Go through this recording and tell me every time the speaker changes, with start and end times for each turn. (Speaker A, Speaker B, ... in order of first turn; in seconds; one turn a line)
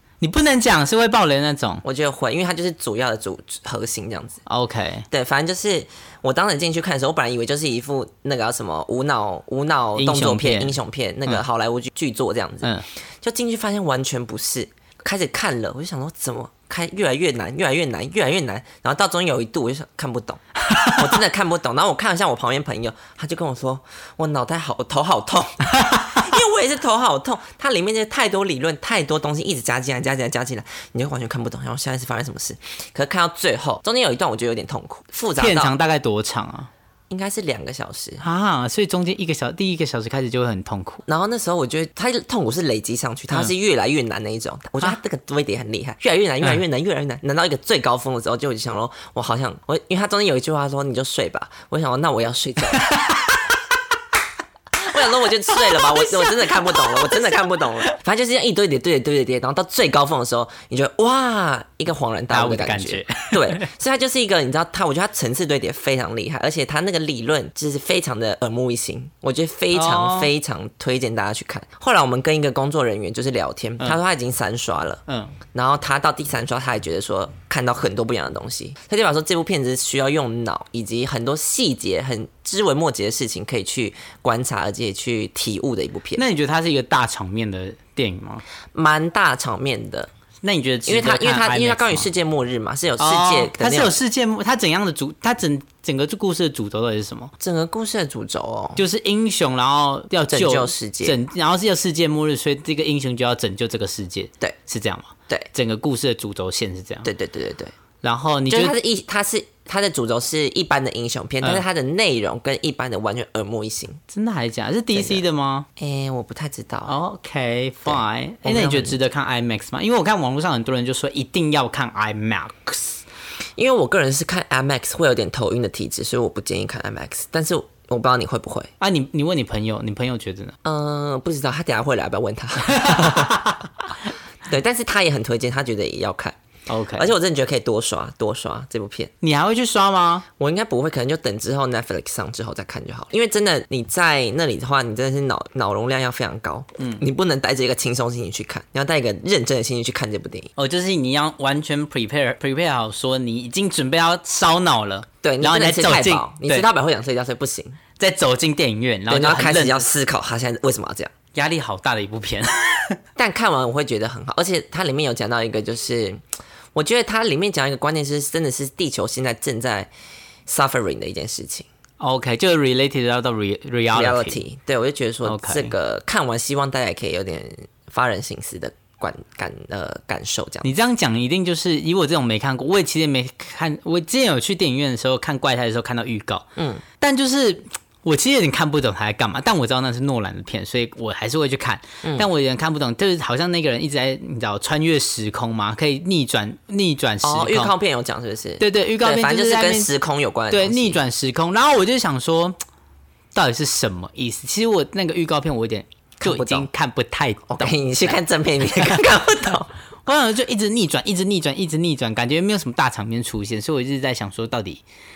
Speaker A: 0.2-1.8
Speaker B: 1.8-4.4
Speaker A: 4.5-5.0
Speaker B: 5.1-35.7
Speaker A: 10.0-11.4
Speaker A: 20.7-21.1
Speaker A: 35.4-36.7
Speaker B: 37.1-38.2
Speaker A: 38.2-41.0
Speaker B: 41.1-52.9
Speaker A: 52.9-53.3
Speaker B: 54.7-86.2
Speaker A: 55.7-57.2
Speaker A: 62.3-63.7
Speaker A: 69.7-70.3
Speaker A: 75.1-75.4
Speaker A: 86.2-88.4
Speaker B: 88.7-90.1
Speaker A: 90.4-92.1
Speaker B: 90.8-94.0
Speaker A: 93.0-97.3
Speaker B: 97.4-98.8
Speaker A: 98.8-107.1
Speaker B: 100.3-101.2
Speaker B: 107.0-107.7
Speaker A: 108.0-108.7
Speaker B: 108.5-114.0
Speaker A: 114.1-115.7
Speaker B: 114.9-115.2
Speaker B: 115.8-117.0
Speaker A: 116.8-123.0
Speaker B: 117.8-119.0
Speaker B: 123.6-128.7
Speaker A: 128.8-130.5
Speaker B: 130.6-133.5
Speaker A: 132.7-133.6
Speaker B: 134.4-136.3
Speaker A: 136.7-137.1
Speaker B: 136.9-139.1
Speaker A: 139.2-140.2
Speaker B: 140.4-150.5
Speaker A: 146.8-147.0
Speaker A: 150.6-156.7
Speaker B: 155.2-157.8
Speaker A: 158.0-159.9
Speaker B: 159.1-161.1
Speaker A: 161.3-163.0
Speaker B: 163.2-166.2
Speaker B: 166.7-169.9
Speaker B: 170.5-171.7
Speaker A: 172.0-174.4
Speaker B: 173.9-180.7
Speaker A: 175.2-175.7
Speaker A: 180.6-186.4
Speaker B: 186.6-186.8
Speaker A: 187.0-197.7
Speaker B: 192.0-192.3
Speaker B: 197.2-201.0
Speaker A: 198.6-199.9
Speaker A: 200.5-202.6
Speaker A: 203.3-208.1
Speaker B: 206.2-206.7
Speaker B: 207.5-209.7
Speaker A: 208.7-209.1
Speaker A: 210.1-214.8